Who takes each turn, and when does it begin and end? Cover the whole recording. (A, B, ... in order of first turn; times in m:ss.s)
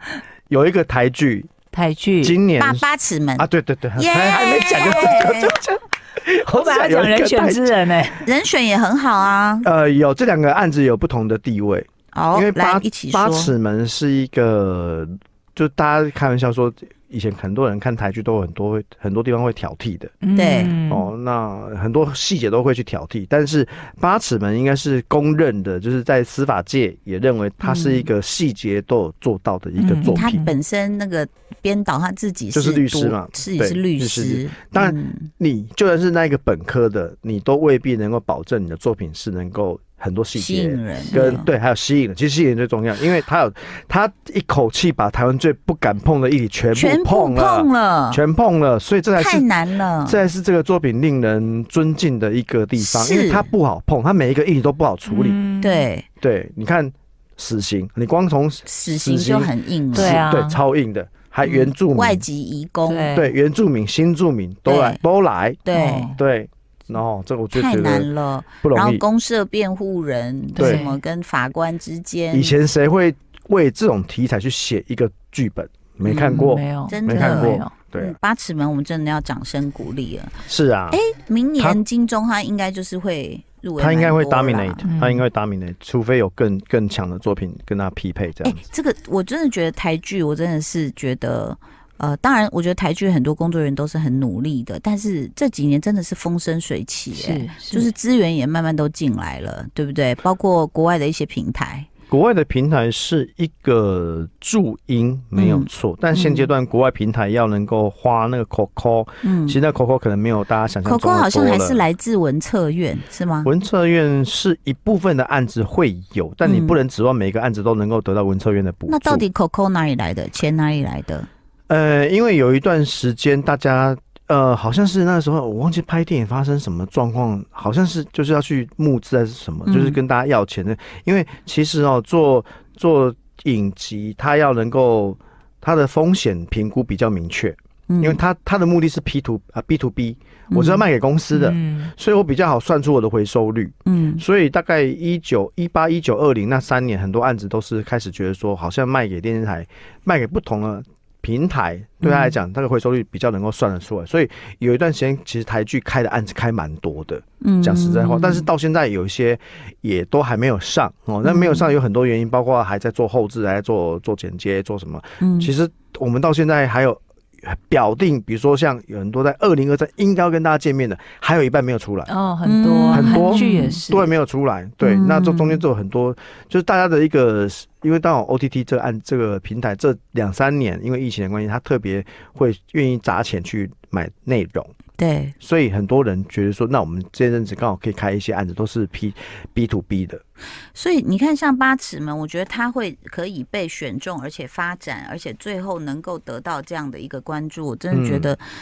0:00.5-0:01.5 A
0:01.7-0:02.4 B
0:02.2-0:02.8 A
0:02.6-0:05.6 C
0:03.4-0:07.8 A
0:06.5-0:08.2 B
0:08.2-0:09.7 C
0:09.6-0:20.1 A
0:12.1-0:13.5 C
0:20.2-0:21.1 B
0:20.3-0:20.8 C
0:20.9-0:30.4 A
0:27.6-0:28.1 C
0:29.8-0:30.5 B
0:30.1-0:35.3 C
0:32.5-0:49.5 A
0:40.3-0:41.5 C
0:41.0-0:41.4 B
0:46.7-0:48.2 C
0:49.2-0:50.2 C
0:50.0-0:55.4 A
0:52.8-0:53.5 C
0:55.0-0:55.9 B
0:55.6-0:56.1 C
0:56.2-1:02.2 A
0:58.6-1:00.2 C
0:59.9-1:00.6 B
1:01.4-1:03.1 C
1:02.8-1:03.3 B
1:03.1-1:08.1 A
1:04.6-1:05.0 C
1:05.6-1:06.1 C
1:05.7-1:06.2 B
1:07.5-1:12.6 C
1:08.6-1:09.0 A
1:10.6-1:11.0 B
1:10.6-1:10.8 A
1:12.3-1:18.2 A
1:16.0-1:17.7 B
1:16.9-1:20.4 C
1:20.5-1:21.0 A
1:20.9-1:24.8 C
1:23.8-1:28.6 A
1:24.9-1:25.2 B
1:28.4-1:41.9 C
1:37.1-1:37.9 B
1:42.1-1:51.8 A
1:45.3-1:46.5 C
1:49.2-1:49.6 C
1:50.8-1:53.5 C
1:53.4-1:59.2 A
1:56.4-1:56.8 C
1:58.9-2:01.3 C
2:01.7-2:52.1 A
2:09.6-2:10.0 C
2:17.9-2:18.2 C
2:20.5-2:20.8 C
2:21.3-2:21.9 B
2:23.8-2:24.2 C
2:32.0-2:32.4 C
2:37.4-2:38.5 C
2:41.2-2:41.7 C
2:45.2-2:45.5 C
2:52.0-2:54.1 B
2:52.4-2:53.8 C
2:52.9-3:04.7 A
2:54.8-2:55.6 C
3:05.0-3:05.3 C
3:05.4-3:10.2 A
3:10.7-3:18.4 C
3:17.9-3:18.3 A